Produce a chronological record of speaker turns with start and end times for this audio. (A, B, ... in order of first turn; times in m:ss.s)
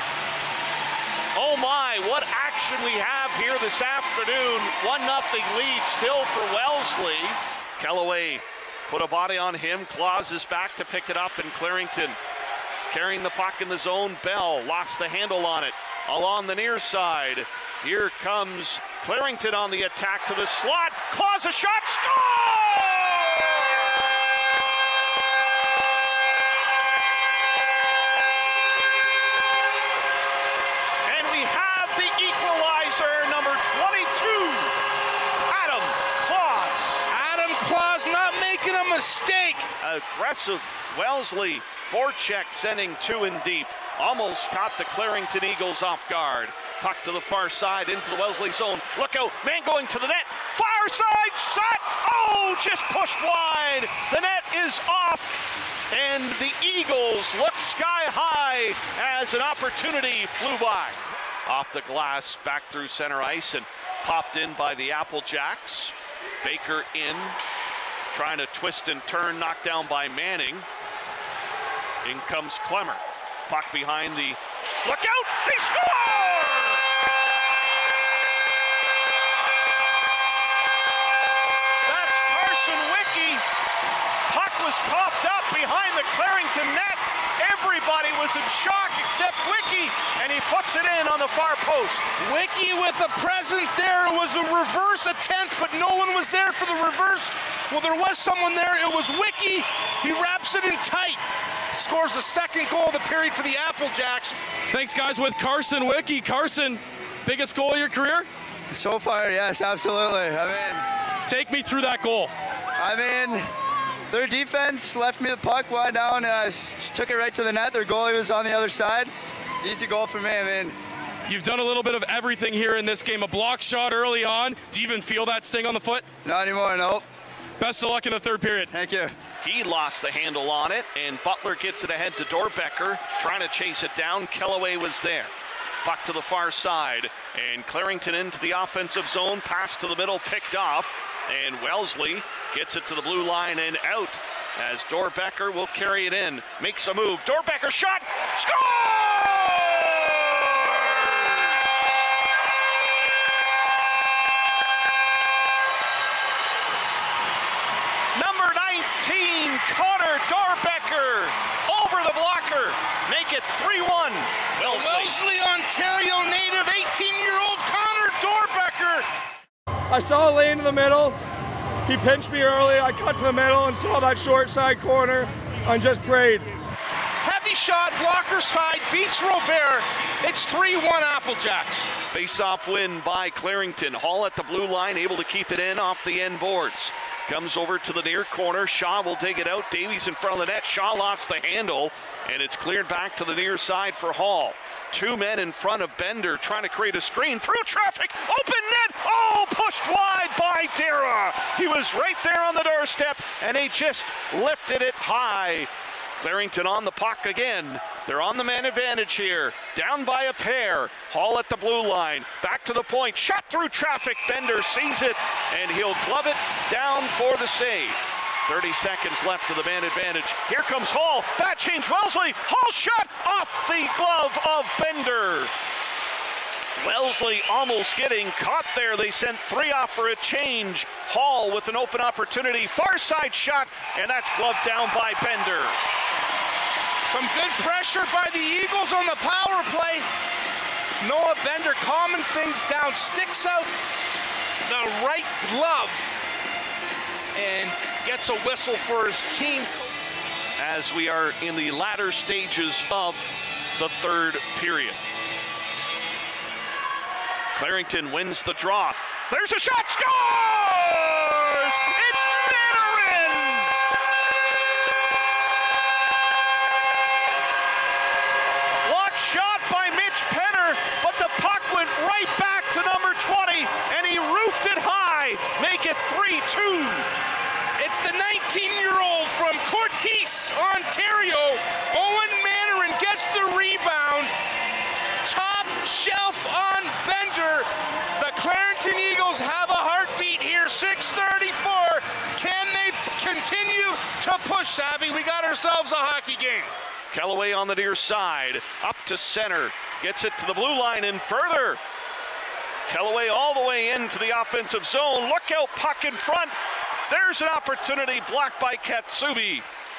0:01.3-0:12.2 A
0:12.9-0:23.7 A
0:31.0-0:34.8 A
0:35.5-0:37.0 A
0:37.1-0:39.7 B
0:39.8-1:07.4 A
1:08.1-1:10.7 A
1:12.0-1:16.8 A
1:21.8-1:23.4 A
1:24.3-1:32.1 A
1:32.2-1:44.4 B
1:44.7-1:48.3 C
1:48.7-1:50.8 D
1:51.2-1:52.3 C
1:52.8-1:53.5 D
1:54.1-1:59.1 D
1:59.6-2:00.8 D
2:01.2-2:06.0 C
2:06.2-2:07.0 D
2:07.6-2:08.7 C
2:08.7-2:09.1 D
2:09.4-2:15.3 A
2:15.8-2:31.1 A
2:38.1-2:45.2 A
2:44.6-2:49.0 B
2:49.9-2:51.2 E
2:51.8-2:56.5 E
2:57.2-3:01.9 B
3:02.1-3:45.5 A
3:46.8-3:55.8 A
3:57.1-4:00.1 B
4:01.0-4:03.8 B
4:04.6-4:06.1 B
4:07.3-4:09.8 B
4:10.6-4:15.0 A
4:17.5-4:23.7 A
4:28.8-4:37.1 A
4:37.8-4:44.3 B
4:45.2-4:56.7 B
4:57.1-5:01.8 A
5:02.9-5:06.6 A
5:07.1-5:09.6 A